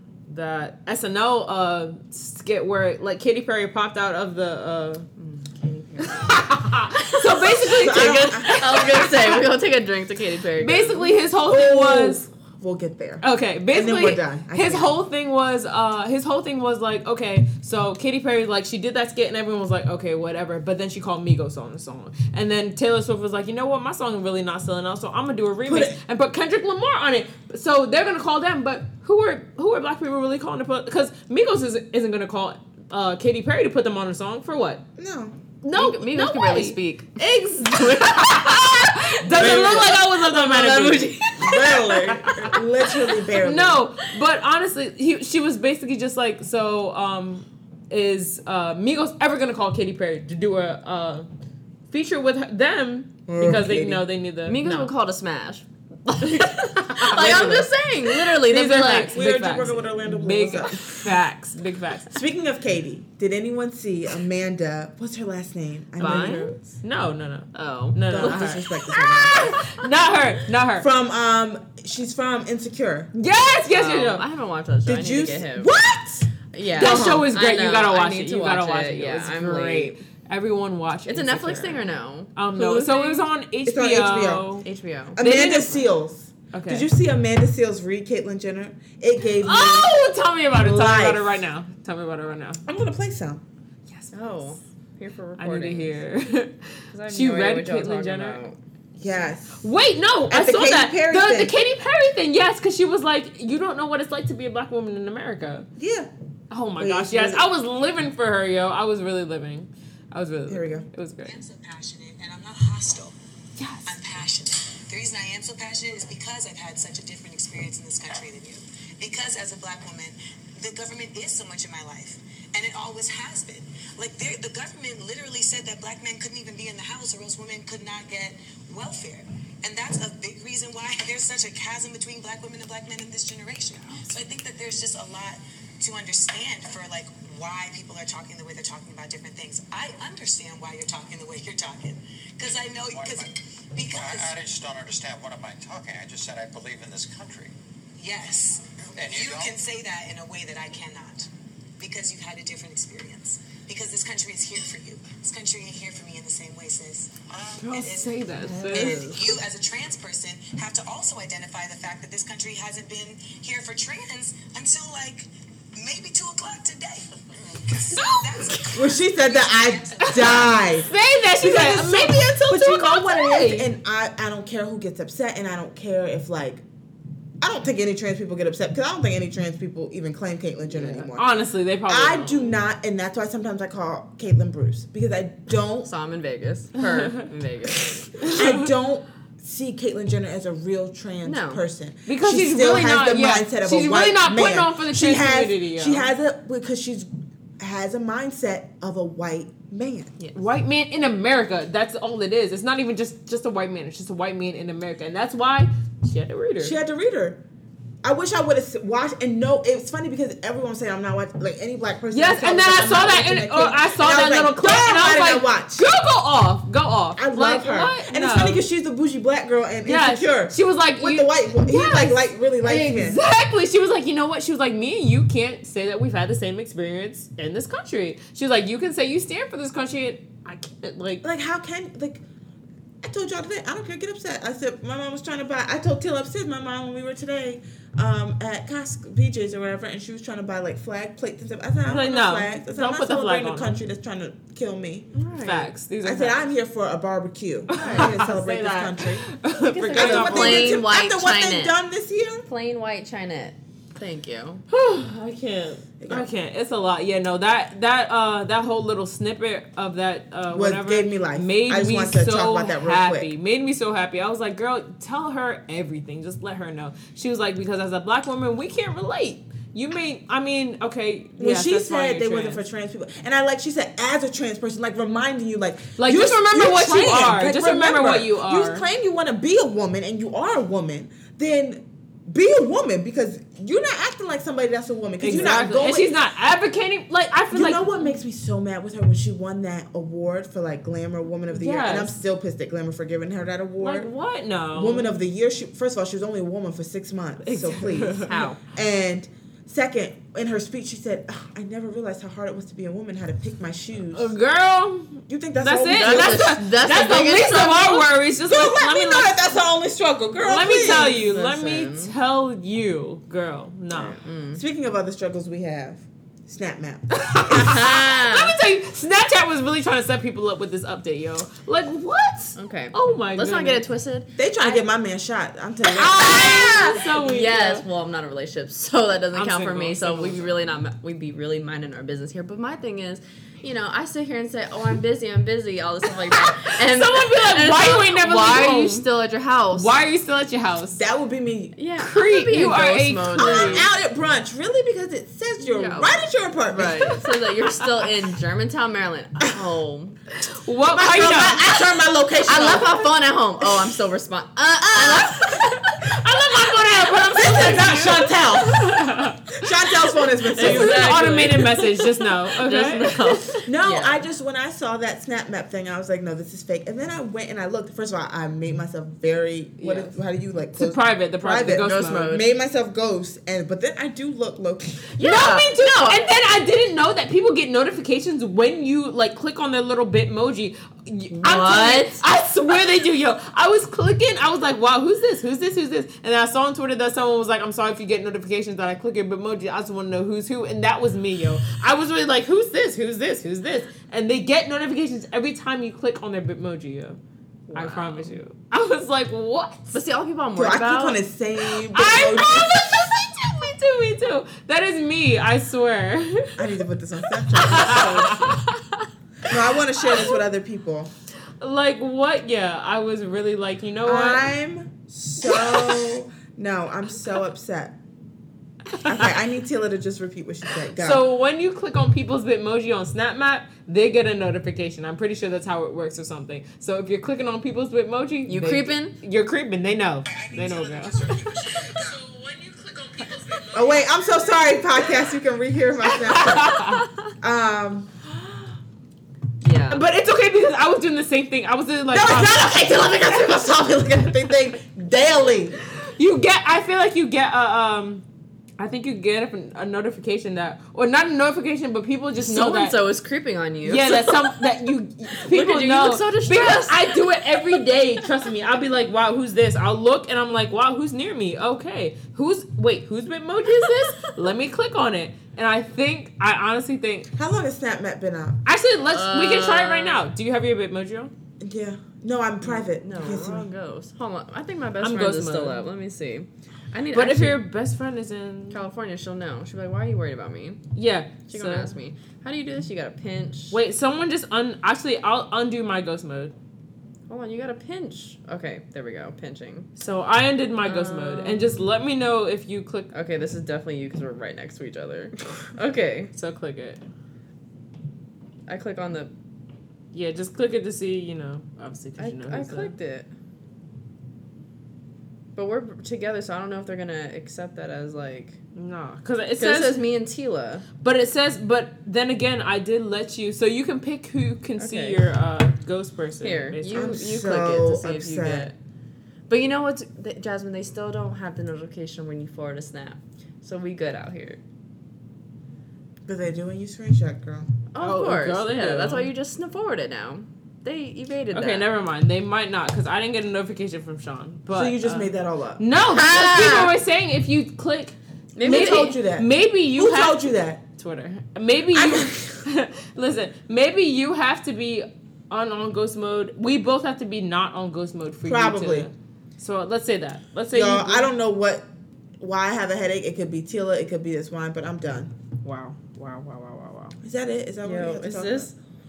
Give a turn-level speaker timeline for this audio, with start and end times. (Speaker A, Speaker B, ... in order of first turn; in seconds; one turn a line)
Speaker A: 0.3-5.1
Speaker B: 5.2-6.4
Speaker A: 6.0-9.5
Speaker B: 7.0-7.7
Speaker C: 7.6-9.1
Speaker B: 8.4-11.1
Speaker A: 10.6-12.3
Speaker C: 11.5-14.9
Speaker A: 13.2-34.8
Speaker C: 25.6-26.0
Speaker C: 35.0-35.4
Speaker A: 35.6-42.6
Speaker B: 35.7-37.1
Speaker C: 39.2-43.8
Speaker B: 41.7-42.5
Speaker A: 43.4-51.3
Speaker A: 51.9-54.9
Speaker C: 53.3-54.0
Speaker B: 54.4-59.3
Speaker A: 56.2-62.2
Speaker C: 57.2-57.5
Speaker C: 58.9-61.1
Speaker C: 62.1-66.6
Speaker A: 66.0-70.9
Speaker B: 66.0-66.4
Speaker B: 67.5-68.6
Speaker C: 68.1-69.7
Speaker C: 70.8-73.1
Speaker A: 73.1-74.2
Speaker B: 73.7-75.7
Speaker C: 74.8-77.3
Speaker B: 76.5-80.0
Speaker A: 76.7-84.7
Speaker B: 81.1-83.2
Speaker C: 83.6-84.6
Speaker B: 84.6-85.2
Speaker C: 85.2-90.0
Speaker A: 85.2-85.8
Speaker A: 86.5-86.9
Speaker A: 89.4-92.6
Speaker C: 90.5-91.3
Speaker C: 92.7-93.4
Speaker A: 93.9-94.1
Speaker B: 94.1-96.0
Speaker A: 95.4-98.4
Speaker B: 96.9-98.6
Speaker C: 99.0-99.6
Speaker A: 99.6-105.7
Speaker C: 100.3-101.5
Speaker C: 105.8-106.1
Speaker A: 106.5-111.4
Speaker C: 106.8-107.5
Speaker C: 110.5-110.9
Speaker D: 111.2-113.1
Speaker A: 113.6-113.9
Speaker D: 113.8-144.4
Speaker E: 142.8-143.3
Speaker E: 143.8-147.5
Speaker D: 148.0-170.7
Speaker E: 148.9-149.6
Speaker A: 157.6-159.2
Speaker C: 158.4-159.0
Speaker B: 158.7-159.2
Speaker A: 167.9-168.7
Speaker C: 168.7-176.6
Speaker A: 170.0-173.7
Speaker C: 177.4-181.3
Speaker A: 180.7-182.6
Speaker C: 181.9-185.9
Speaker B: 185.8-188.3
Speaker A: 186.8-187.3
Speaker A: 188.2-188.7
Speaker C: 188.2-200.2
Speaker B: 191.2-191.6
Speaker A: 192.1-196.1
Speaker A: 200.3-206.8
Speaker C: 206.6-207.4
Speaker C: 208.0-215.9
Speaker A: 212.1-218.6
Speaker C: 217.2-223.2
Speaker A: 219.8-231.2
Speaker C: 231.2-232.2
Speaker C: 233.0-245.1
Speaker A: 241.8-243.8
Speaker B: 245.1-245.7
Speaker A: 245.4-246.4
Speaker C: 246.0-249.3
Speaker A: 247.7-250.8
Speaker B: 247.7-248.1
Speaker B: 249.5-251.8
Speaker C: 249.9-252.4
Speaker B: 252.4-254.6
Speaker A: 254.7-272.6
Speaker C: 256.0-256.3
Speaker C: 260.5-263.3
Speaker C: 271.4-286.1
Speaker A: 276.0-278.9
Speaker A: 285.2-288.1
Speaker C: 287.5-294.1
Speaker A: 291.5-292.1
Speaker A: 293.8-295.1
Speaker C: 294.7-304.3
Speaker A: 297.4-298.5
Speaker B: 298.3-298.6
Speaker A: 304.1-309.6
Speaker C: 305.3-306.5
Speaker B: 305.9-308.1
Speaker C: 308.4-311.1
Speaker A: 310.4-314.1
Speaker B: 310.6-312.1
Speaker B: 314.0-314.6
Speaker C: 314.5-317.2
Speaker A: 317.1-323.8
Speaker B: 317.4-318.6
Speaker B: 322.6-324.8
Speaker C: 324.4-326.6
Speaker A: 325.8-327.8
Speaker B: 326.1-339.9
Speaker A: 329.3-330.6
Speaker A: 336.3-339.1
Speaker A: 339.7-341.0
Speaker C: 340.9-341.7
Speaker B: 341.8-343.9
Speaker A: 342.0-343.9
Speaker C: 343.3-347.2
Speaker B: 345.6-350.2
Speaker A: 350.4-351.6
Speaker C: 350.9-353.1
Speaker B: 352.4-355.8
Speaker C: 354.9-355.5
Speaker A: 355.2-363.5
Speaker C: 357.3-361.6
Speaker B: 360.5-361.9
Speaker B: 362.5-364.2
Speaker C: 363.6-375.1
Speaker A: 369.8-370.1
Speaker A: 370.8-372.3
Speaker B: 371.8-372.5
Speaker A: 375.1-397.2
Speaker B: 375.2-376.2
Speaker B: 381.3-382.2
Speaker B: 397.7-398.4
Speaker A: 397.7-399.9
Speaker B: 399.9-401.2
Speaker C: 400.6-402.8
Speaker A: 401.7-406.7
Speaker C: 406.6-408.6
Speaker A: 407.5-408.6
Speaker B: 407.6-408.7
Speaker C: 409.4-411.1
Speaker A: 411.6-414.5
Speaker C: 414.1-418.0
Speaker A: 415.4-416.1
Speaker C: 418.9-421.2
Speaker A: 420.9-433.9
Speaker B: 428.5-429.1
Speaker D: 430.3-432.1
Speaker E: 430.5-431.9
Speaker C: 433.7-438.3
Speaker A: 436.1-437.1
Speaker B: 439.6-440.0
Speaker A: 439.9-442.8
Speaker C: 442.1-445.8
Speaker A: 445.9-448.2
Speaker A: 448.8-453.0
Speaker B: 452.4-454.6
Speaker A: 453.8-467.3
Speaker B: 455.4-457.5
Speaker B: 463.7-464.3
Speaker C: 467.3-468.6
Speaker A: 468.6-471.3
Speaker B: 469.1-470.2
Speaker C: 471.6-473.7
Speaker B: 472.6-477.6
Speaker A: 475.0-475.9
Speaker A: 477.1-478.8
Speaker B: 478.7-480.8
Speaker A: 480.9-481.9
Speaker B: 481.5-483.8
Speaker A: 483.7-486.5
Speaker B: 487.3-489.9
Speaker A: 490.0-493.1
Speaker B: 490.8-491.9
Speaker B: 493.1-496.3
Speaker A: 496.3-497.0
Speaker B: 498.7-499.3
Speaker A: 500.1-502.9
Speaker B: 502.2-503.3
Speaker B: 505.6-508.6
Speaker A: 508.7-510.0
Speaker B: 509.6-510.8
Speaker A: 511.0-517.0
Speaker B: 514.8-515.2
Speaker B: 516.4-518.7
Speaker C: 516.9-518.7
Speaker B: 519.5-524.6
Speaker C: 526.2-527.7
Speaker B: 527.9-531.8
Speaker A: 528.0-529.3
Speaker A: 531.5-551.3
Speaker C: 534.7-535.8
Speaker B: 536.1-536.9
Speaker B: 538.5-539.1
Speaker C: 538.6-540.8
Speaker C: 541.9-542.6
Speaker C: 548.4-549.1
Speaker C: 550.7-551.9
Speaker C: 552.4-555.3
Speaker A: 555.6-557.2
Speaker C: 557.2-558.7
Speaker B: 557.8-558.7